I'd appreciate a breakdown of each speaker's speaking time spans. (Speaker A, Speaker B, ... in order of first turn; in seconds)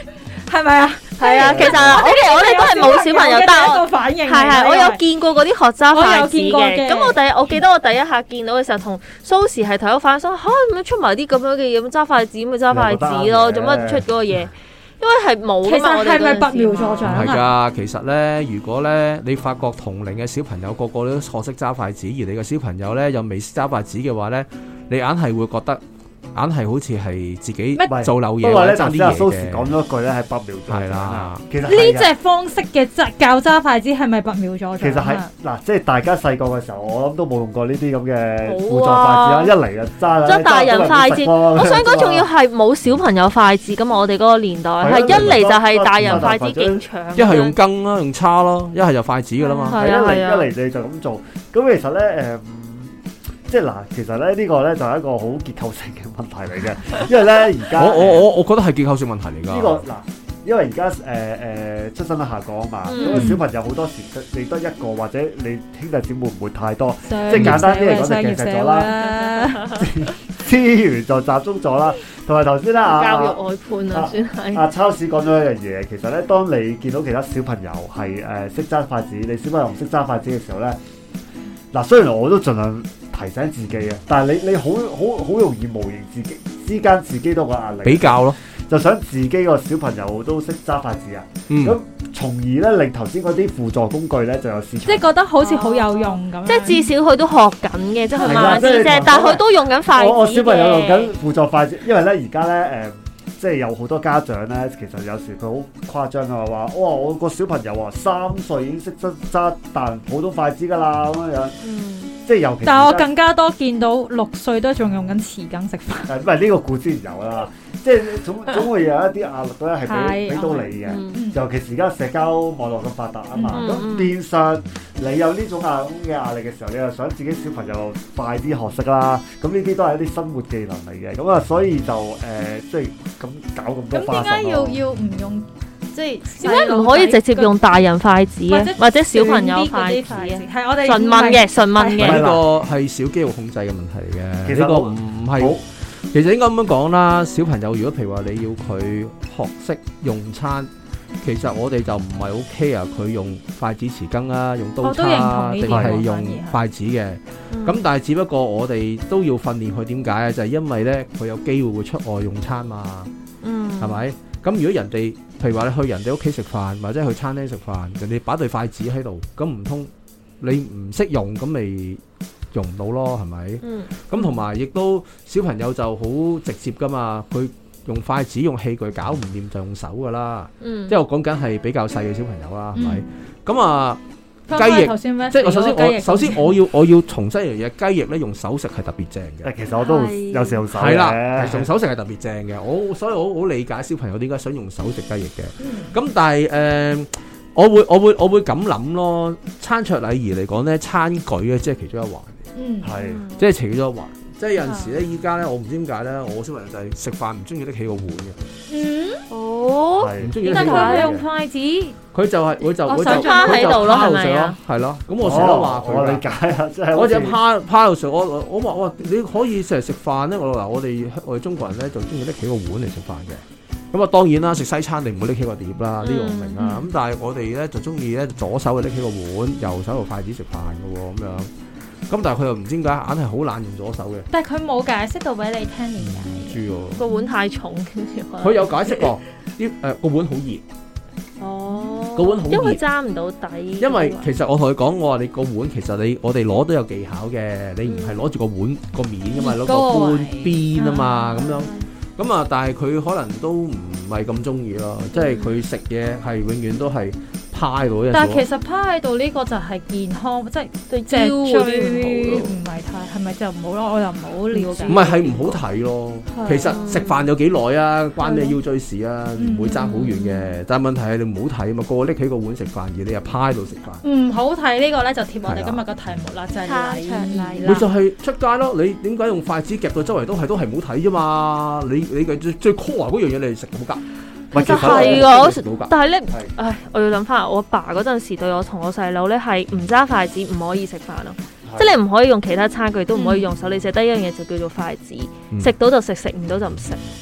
Speaker A: 0.4-5.0, 5.9-7.2, 15.6-17.5, 31.6-35.3, 49.4-49.7, 63.0-63.4, 67.0-69.7, 94.8-96.9, 98.1-98.8, 112.6-116.1, 119.8-121.4, 123.3-123.8, 133.9-137.6, 138.5-142.1, 154.8-156.6, 182.8-183.0, 184.5-186.5, 195.6-195.9, 202.5-202.9, 208.7-209.2, 210.4-212.0, 212.8-214.3, 226.6-226.8, 234.3-237.3, 249.3-251.4, 258.1-265.0, 266.3-266.8, 269.4-270.0, 274.0-277.9, 293.1-293.4
Speaker B: 1.2-17.3, 38.4-39.5, 40.2-47.6, 49.7-50.5, 62.9-63.3, 69.3-69.8, 72.8-74.7, 95.4-101.1, 111.6-112.1, 120.8-121.2, 123.5-124.1, 136.4-142.2, 157.5-157.8, 163.4-164.0, 173.6-174.3, 180.6-180.9, 189.8-190.7, 202.9-203.4, 209.3-211.1, 212.9-214.6, 226.0-226.7, 237.0-239.2, 241.4-244.3, 247.8-248.2, 250.8-251.7, 255.1-255.6, 260.9-262.6, 264.5-265.6, 266.6-267.3, 268.2-268.5, 269.7-270.5, 276.6-277.8, 284.5-297.0
Speaker C: 1.3-2.0, 12.7-14.1, 27.9-32.1, 34.8-42.3, 44.8-46.8, 49.7-52.9, 53.5-58.3, 59.5-69.0, 69.7-73.4, 73.9-80.8, 81.7-95.1, 98.2-111.6, 112.2-113.1, 116.1-134.8, 142.0-142.4, 144.4-145.6, 155.7-156.0, 189.4-191.7, 202.8-203.2, 209.9-211.2, 215.2-217.4, 284.5-285.3, 291.6-291.9
Speaker D: 17.0-25.8, 26.3-29.7, 30.7-31.4, 45.1-45.4, 46.0-46.3, 47.1-49.8, 57.7-59.8, 67.3-67.7, 87.8-88.4, 91.5-91.8, 142.0-150.7, 151.2-163.1, 163.8-189.5, 190.7-202.4, 203.4-208.4, 210.2-211.2, 212.1-216.2, 216.9-231.5, 232.1-234.3, 236.0-237.0, 238.4-240.6, 242.2-242.8, 243.8-258.4, 264.9-274.0, 275.4-275.8, 277.6-284.0, 284.6-285.9